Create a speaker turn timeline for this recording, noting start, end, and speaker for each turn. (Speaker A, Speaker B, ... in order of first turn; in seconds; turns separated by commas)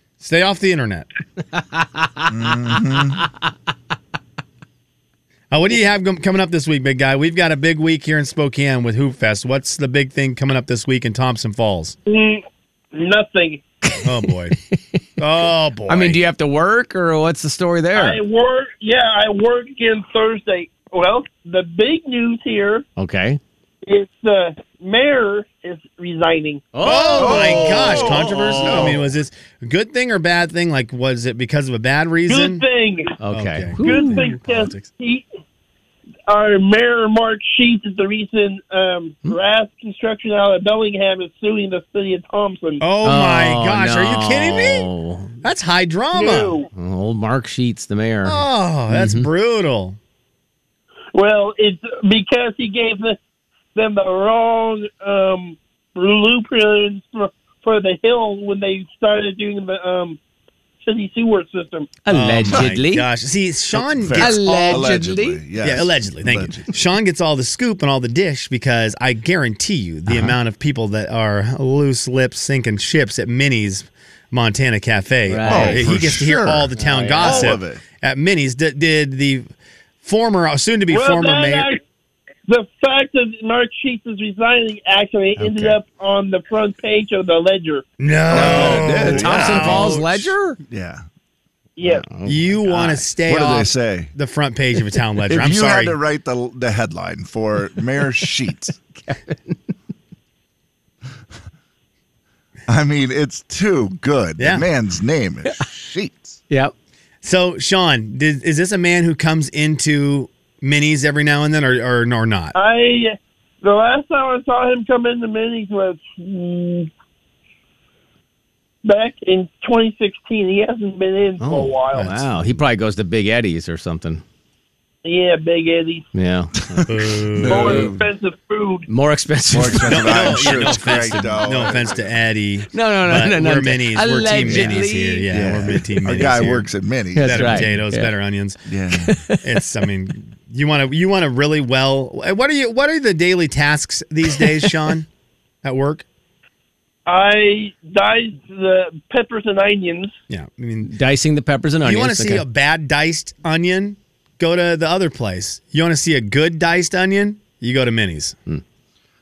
Speaker A: 0.2-1.1, Speaker B: 2.3-3.2, Speaker A: 5.5-11.9, Speaker C: 12.1-13.6, Speaker A: 14.0-14.6, Speaker A: 15.2-16.2, Speaker D: 15.9-18.2, Speaker C: 17.9-22.9, Speaker D: 23.0-23.4, Speaker C: 23.9-26.6, Speaker D: 26.7-29.0, Speaker A: 26.8-32.6, Speaker B: 27.1-29.1, Speaker C: 32.3-33.1, Speaker D: 33.2-34.2, Speaker A: 33.3-34.9, Speaker C: 33.8-35.2, Speaker C: 36.3-42.8, Speaker A: 42.8-44.9, Speaker D: 43.0-45.4, Speaker A: 45.4-46.6, Speaker C: 46.1-46.7, Speaker D: 46.8-49.3, Speaker A: 48.2-50.0, Speaker C: 51.1-53.2, Speaker C: 53.7-60.2, Speaker C: 60.8-61.9, Speaker D: 62.0-63.1, Speaker A: 62.1-64.9, Speaker B: 62.5-62.8, Speaker B: 63.7-66.7, Speaker D: 64.2-65.4, Speaker A: 65.6-79.5, Speaker D: 70.1-70.4, Speaker D: 75.3-75.9, Speaker B: 75.4-77.8, Speaker D: 76.8-77.5, Speaker A: 80.0-81.7, Speaker C: 80.9-81.8, Speaker C: 82.5-87.9, Speaker D: 85.4-85.7, Speaker A: 88.0-90.2, Speaker B: 88.3-91.0, Speaker D: 88.3-90.6, Speaker C: 91.8-92.0, Speaker D: 91.8-93.0, Speaker A: 92.2-96.0, Speaker B: 93.2-94.1, Speaker B: 95.3-98.8, Speaker D: 98.9-99.6, Speaker B: 102.7-106.4, Speaker A: 104.4-104.7, Speaker A: 107.2-112.5, Speaker C: 112.5-116.9, Speaker C: 118.8-122.2, Speaker D: 121.4-124.2, Speaker C: 125.0-126.1, Speaker D: 126.1-126.8, Speaker B: 126.6-128.1, Speaker A: 126.9-127.8, Speaker C: 127.4-128.9, Speaker D: 128.9-131.2, Speaker B: 129.5-132.1, Speaker A: 129.9-136.7, Speaker D: 132.7-135.2, Speaker B: 134.4-137.7, Speaker D: 137.1-138.1, Speaker A: 137.2-138.6, Speaker B: 138.7-139.2, Speaker D: 139.0-139.4, Speaker A: 139.4-145.1, Speaker A: 145.6-146.0, Speaker C: 147.1-150.1, Speaker A: 150.3-150.9, Speaker D: 150.9-152.4, Speaker A: 151.8-158.4